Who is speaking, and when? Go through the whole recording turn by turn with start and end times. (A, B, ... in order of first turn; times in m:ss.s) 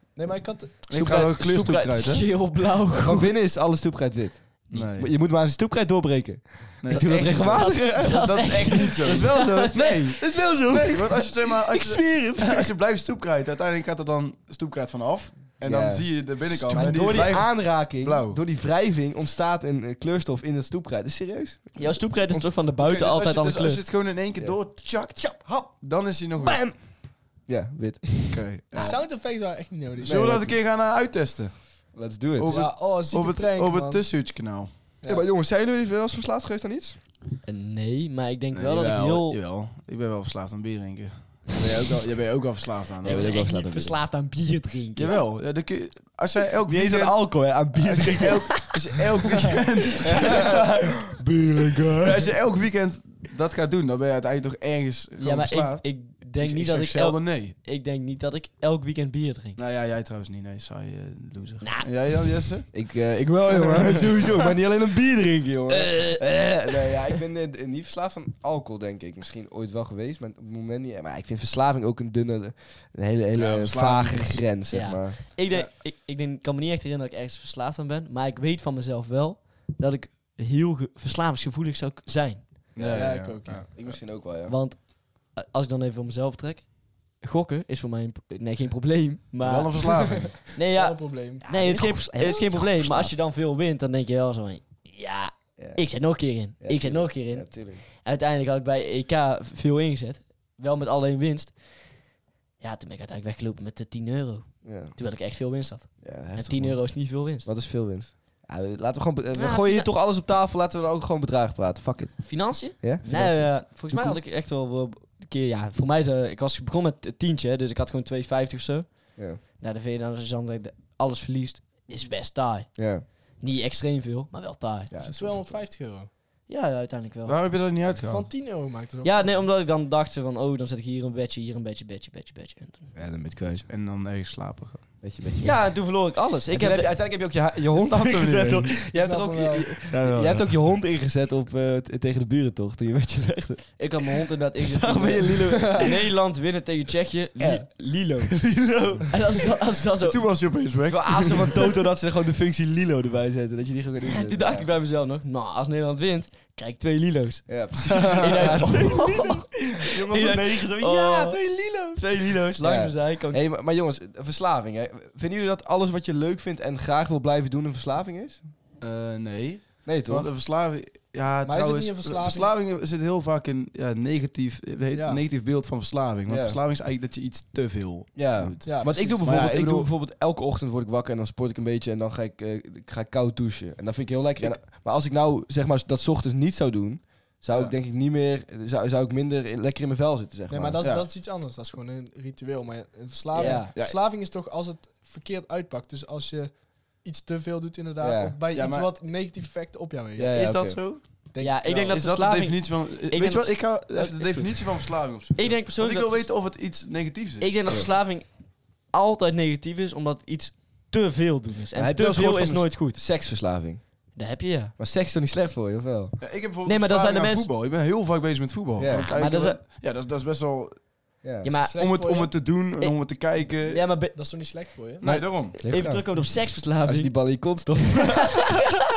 0:00.2-0:00.9 A
0:00.9-0:02.2 B
0:00.9-0:03.3 C
0:03.0-0:08.5 D
0:04.7-0:05.1 B
0:06.8-0:18.4 B
0:07.5-0:10.4 C
0:09.0-0:11.3 D
0:11.8-0:12.6 D
0:15.6-0:22.0 D
0:16.7-0:17.4 C
0:21.8-0:23.8 C
0:22.3-0:26.6 B
0:26.4-0:29.0 D
0:28.3-0:29.0 B
0:28.7-0:30.2 A
0:30.0-0:31.6 B
0:30.0-0:30.5 D
0:31.9-0:32.7 D
0:32.4-0:34.7 B
0:32.5-0:34.0 A
0:35.0-0:37.0 D
0:37.4-0:39.4 C
0:38.5-0:43.3 B
0:41.6-0:42.0 D
0:43.0-0:44.0 D
0:43.0-0:45.2 C
0:45.0-0:51.0 B
0:46.7-0:48.6 D
0:50.0-0:52.3 D
0:52.0-0:57.5 B
0:55.2-0:59.6 C
0:59.6-1:02.7 B
1:01.6-1:01.9 C
1:02.7-1:15.2 D
1:03.6-1:04.3 B
1:05.9-1:06.2 C
1:13.3-1:14.5 B
1:14.7-1:22.5 C
1:22.7-1:24.6 D
1:22.8-1:23.9 B
1:22.9-1:23.6 A
1:24.4-1:29.8 C
1:29.4-1:30.4 B
1:29.8-1:31.4 A
1:30.5-1:42.0 C
1:31.5-1:33.1 D
1:35.6-1:37.8 D
1:42.6-1:47.5 C
1:44.6-1:45.0 D
1:46.0-1:54.2 D
1:49.3-1:49.9 C
1:52.2-2:04.9 C
2:02.8-2:03.0 D
2:04.9-2:05.6 D
2:05.0-2:06.1 A
2:06.5-2:07.4 C
2:07.2-2:08.3 B
2:08.0-2:09.3 A
2:09.0-2:12.9 C
2:12.9-2:13.6 D
2:13.7-2:14.8 B
2:15.0-2:15.8 D
2:15.4-2:16.9 C
2:16.5-2:25.9 D
2:17.8-2:18.8 B
2:18.9-2:19.7 A
2:19.9-2:20.6 B
2:23.8-2:30.2 C
2:27.4-2:27.7 D
2:28.4-2:29.0 B
2:30.0-2:31.7 B
2:30.9-2:34.7 D
2:34.0-2:41.4 C
2:37.5-2:48.4 D
2:37.9-2:38.7 B
2:42.0-2:43.4 C
2:48.8-2:59.9 B
2:49.8-2:50.3 D
2:51.4-2:52.5 A
2:54.9-2:55.2 A
2:56.3-2:56.6 D
2:58.2-3:10.8 D
2:58.6-2:59.3 A
3:10.5-3:20.3 A
3:10.8-3:11.1 B
3:13.3-3:13.7 C
3:13.4-3:13.7 D
3:18.0-3:18.4 D
3:18.5-3:18.9 B
3:20.2-3:20.8 D
3:20.2-3:21.0 B
3:21.3-3:22.0 A
3:21.4-3:26.3 C
3:21.9-3:27.8 B
3:27.4-3:33.0 C
3:31.7-3:34.1 D
3:34.1-3:34.7 C
3:34.8-3:36.2 D
3:36.2-3:40.9 B
3:36.6-3:37.5 C
3:38.8-3:39.1 D
3:38.9-3:39.6 C
3:41.2-3:41.5 D
3:41.4-3:42.0 C
3:41.6-3:42.3 A
3:41.8-3:43.9 B
3:43.6-3:44.1 C
3:44.1-3:45.1 A
3:45.0-3:45.6 B
3:45.0-3:47.2 C
3:45.5-3:46.2 D
3:46.8-3:48.6 D